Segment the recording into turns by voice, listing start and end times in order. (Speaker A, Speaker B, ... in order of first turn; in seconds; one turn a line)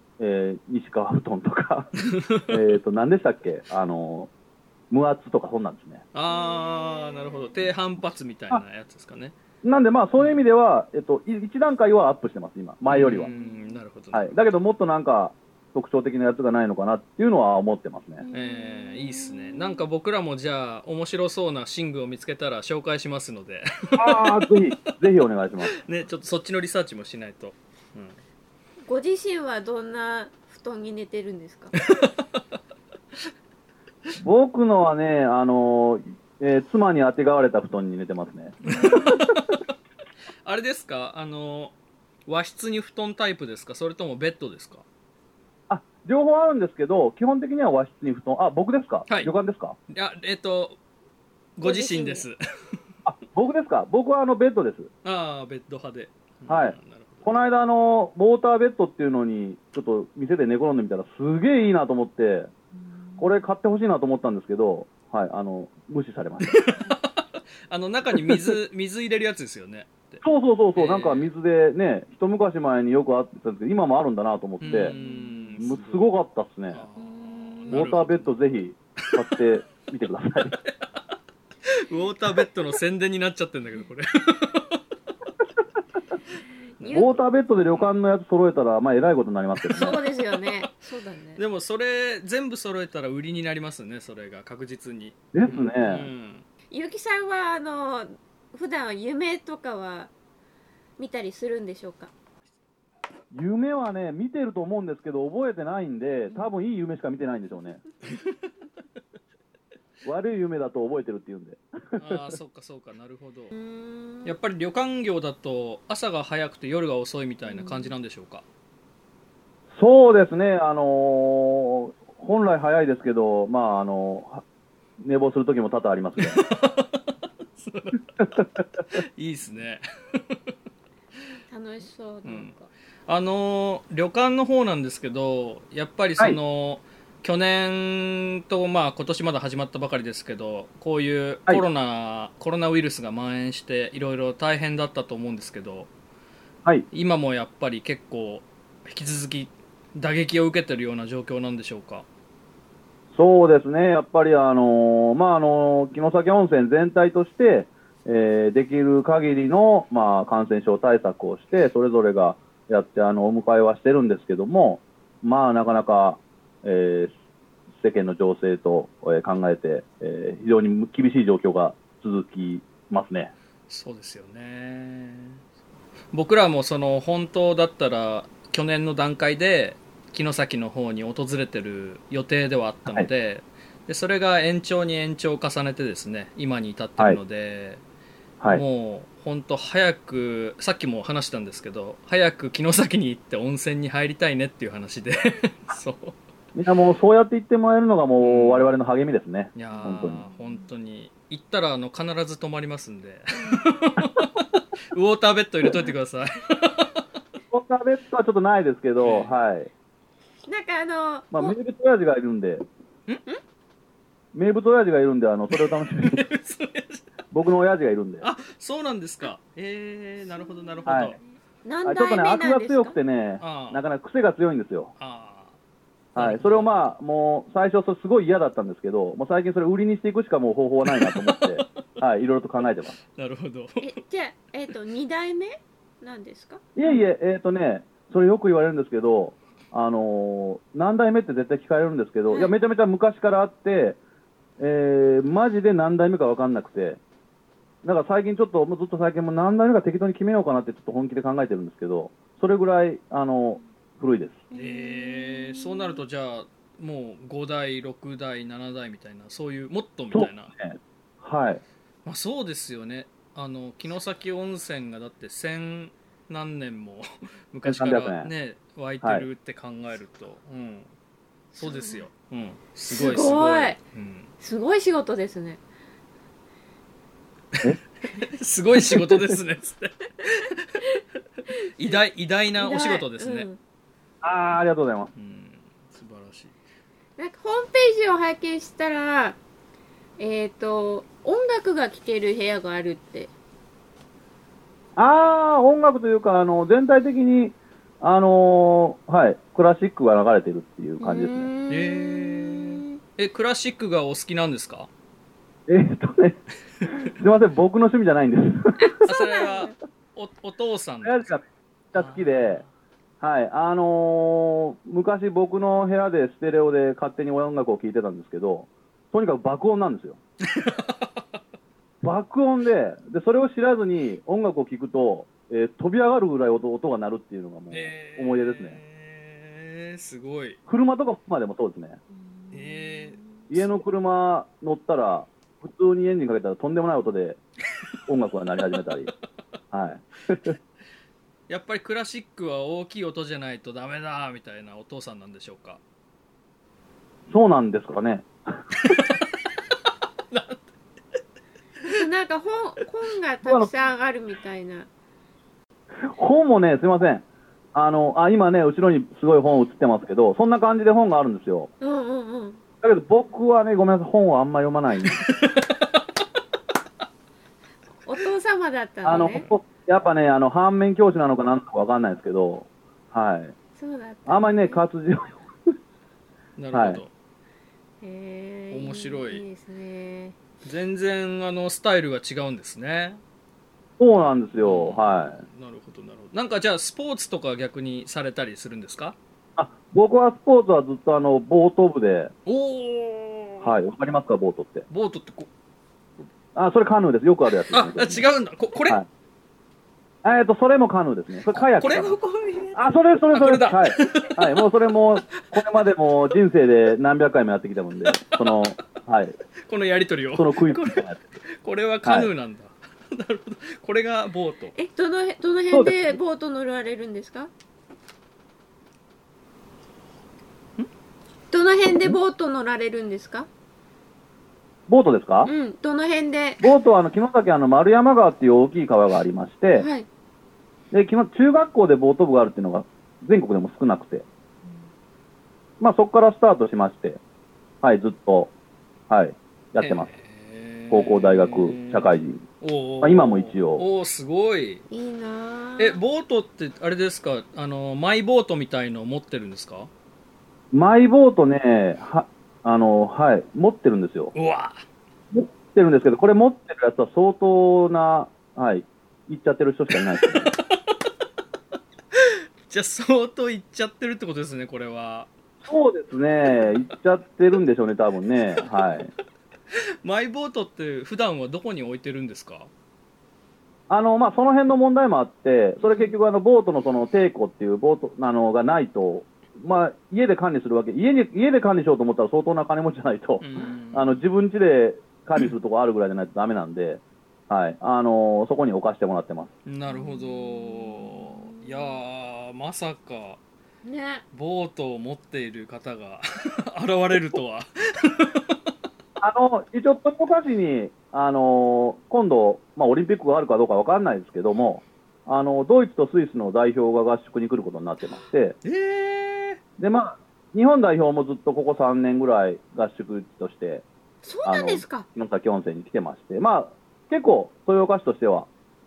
Speaker A: 0.2-1.9
Speaker B: 2.1-2.6
Speaker A: 2.5-4.3
Speaker A: 4.9-6.0
Speaker B: 6.1-9.3
Speaker C: 6.3-7.5
Speaker A: 9.6-13.3
Speaker B: 12.9-14.4
Speaker A: 14.1-18.2
Speaker C: 18.2-19.8
Speaker B: 18.3-24.5
Speaker A: 24.0-25.8
Speaker B: 25.6-28.2
Speaker C: 28.9-31.8
Speaker B: 31.8-32.4
Speaker A: 34.2-39.4
Speaker B: 38.6-39.6
Speaker B: 40.5-41.7
Speaker B: 42.3-44.8
Speaker A: 45.7-49.8
Speaker B: 49.9-50.8
Speaker B: 51.6-52.8
Speaker C: 51.6-52.3
Speaker A: 53.0-54.9
Speaker B: 55.0-57.3
Speaker A: 56.5-62.5
Speaker A: 63.2-66.7
Speaker B: 66.5-70.2
Speaker A: 68.2-68.5
Speaker A: 70.2-75.0
Speaker B: 70.8-71.3
Speaker B: 74.6-76.1
Speaker C: 74.7-75.5
Speaker A: 75.6-76.8
Speaker B: 76.7-78.3
Speaker C: 77.0-77.9
Speaker A: 77.7-80.6
Speaker B: 81.7-84.8
Speaker B: 86.8-87.1
Speaker C: 86.8-87.1
Speaker A: 86.9-90.0
Speaker B: 89.7-90.7
Speaker C: 89.7-91.4
Speaker B: 91.4-96.5
Speaker A: 95.3-96.1
Speaker C: 96.7-100.1
Speaker C: 101.0-102.1
Speaker A: 103.3-107.8
Speaker A: 110.0-112.3
Speaker B: 112.0-113.5
Speaker C: 113.5-114.3
Speaker B: 114.2-118.4
Speaker C: 117.5-117.9
Speaker A: 119.8-124.4
Speaker A: 125.0-126.4
Speaker B: 126.2-130.4
Speaker C: 131.5-132.7
Speaker B: 132.2-132.5
Speaker B: 133.1-145.9
Speaker B: 146.9-152.1
Speaker A: 153.1-167.1
Speaker A: 167.8-173.3
Speaker B: 173.7-175.4
Speaker B: 176.1-187.8
Speaker B: 188.5-196.2
Speaker A: 196.6-200.2
Speaker B: 198.2-198.7
Speaker B: 199.6-207.0
Speaker A: 207.5-209.7
Speaker B: 209.0-209.3
Speaker C: 210.5-211.6
Speaker A: 211.3-212.7
Speaker A: 214.3-216.3
Speaker B: 215.5-217.1
Speaker A: 217.3-218.3
Speaker B: 218.2-221.2
Speaker C: 220.3-223.0
Speaker A: 220.9-221.2
Speaker A: 221.8-224.9
Speaker B: 223.4-223.8
Speaker B: 225.0-225.6
Speaker A: 226.2-233.0
Speaker B: 226.2-226.9
Speaker B: 230.9-231.6
Speaker B: 233.2-233.9
Speaker C: 233.8-236.6
Speaker A: 236.8-244.0
Speaker C: 242.3-242.5
Speaker A: 244.6-247.0
Speaker A: 247.8-254.4
Speaker C: 254.5-256.0
Speaker B: 254.5-260.5
Speaker A: 260.1-261.6
Speaker B: 262.1-270.9
Speaker A: 267.6-268.3
Speaker A: 269.0-269.3
Speaker B: 271.5-274.3
Speaker C: 271.6-272.0
Speaker C: 272.9-273.8
Speaker C: 274.4-275.6
Speaker B: 277.5-280.9
Speaker A: 278.8-279.4
Speaker B: 281.8-283.5
Speaker C: 282.6-283.6
Speaker A: 284.2-285.1
Speaker B: 285.2-286.6
Speaker C: 287.2-289.4
Speaker C: 290.2-293.3
Speaker A: 295.0-301.5
Speaker C: 301.0-303.0
Speaker B: 301.7-304.9
Speaker A: 305.7-309.0
Speaker C: 308.9-309.7
Speaker B: 309.0-311.3
Speaker A: 311.0-312.6
Speaker B: 311.9-312.7
Speaker A: 313.2-320.2
Speaker B: 320.5-321.2
Speaker A: 322.0-328.8
Speaker B: 327.7-330.6
Speaker A: 330.7-332.0
Speaker C: 332.2-333.4
Speaker B: 332.5-333.6
Speaker A: 333.5-337.4
Speaker A: 338.1-339.1
Speaker A: 339.7-340.6
Speaker B: 341.5-345.8
Speaker A: 347.3-349.0
Speaker B: 348.9-349.2
Speaker B: 350.3-350.7
Speaker C: 351.9-354.9
Speaker A: 356.0-361.7
Speaker C: 361.8-362.6
Speaker A: 362.8-365.2
Speaker B: 365.1-365.6
Speaker C: 368.1-369.4
Speaker A: 369.0-373.6
Speaker B: 369.1-369.5
Speaker C: 373.8-374.8
Speaker A: 374.3-375.4
Speaker B: 376.6-377.1
Speaker A: 376.7-377.0
Speaker C: 378.0-380.4
Speaker B: 378.7-379.4
Speaker B: 380.6-383.2
Speaker A: 384.0-385.4
Speaker B: 384.1-389.2
Speaker A: 389.6-392.3
Speaker B: 392.5-393.8
Speaker A: 393.6-394.9
Speaker B: 394.9-395.5
Speaker A: 396.6-398.2
Speaker B: 397.7-399.0
Speaker A: 400.2-402.2
Speaker B: 401.5-404.6
Speaker A: 402.7-409.4
Speaker B: 408.0-408.8
Speaker B: 409.7-414.7
Speaker A: 410.4-411.2
Speaker A: 412.0-412.3
Speaker C: 414.8-417.5
Speaker A: 415.7-416.1
Speaker C: 421.5-423.5
Speaker A: 424.9-425.5
Speaker C: 425.4-426.6
Speaker A: 426.6-429.9
Speaker C: 429.8-430.1
Speaker A: 430.9-434.2
Speaker A: 435.8-437.2
Speaker A: 437.8-438.5
Speaker A: 439.1-440.1
Speaker B: 439.8-444.8
Speaker A: 440.9-442.4
Speaker A: 443.0-443.9
Speaker C: 444.9-446.0
Speaker B: 445.8-449.9
Speaker A: 450.7-454.3
Speaker B: 454.4-454.8
Speaker A: 455.3-460.5
Speaker B: 460.2-460.6
Speaker B: 462.1-465.3
Speaker A: 465.6-469.1
Speaker B: 470.0-472.7
Speaker A: 473.9-489.5
Speaker B: 483.4-484.2
Speaker B: 489.7-493.4
Speaker C: 489.9-491.9
Speaker C: 493.8-494.2
Speaker B: 494.3-498.6
Speaker A: 499.2-508.6
Speaker B: 508.6-509.6
Speaker A: 509.8-513.9
Speaker C: 514.2-515.1
Speaker A: 514.5-518.5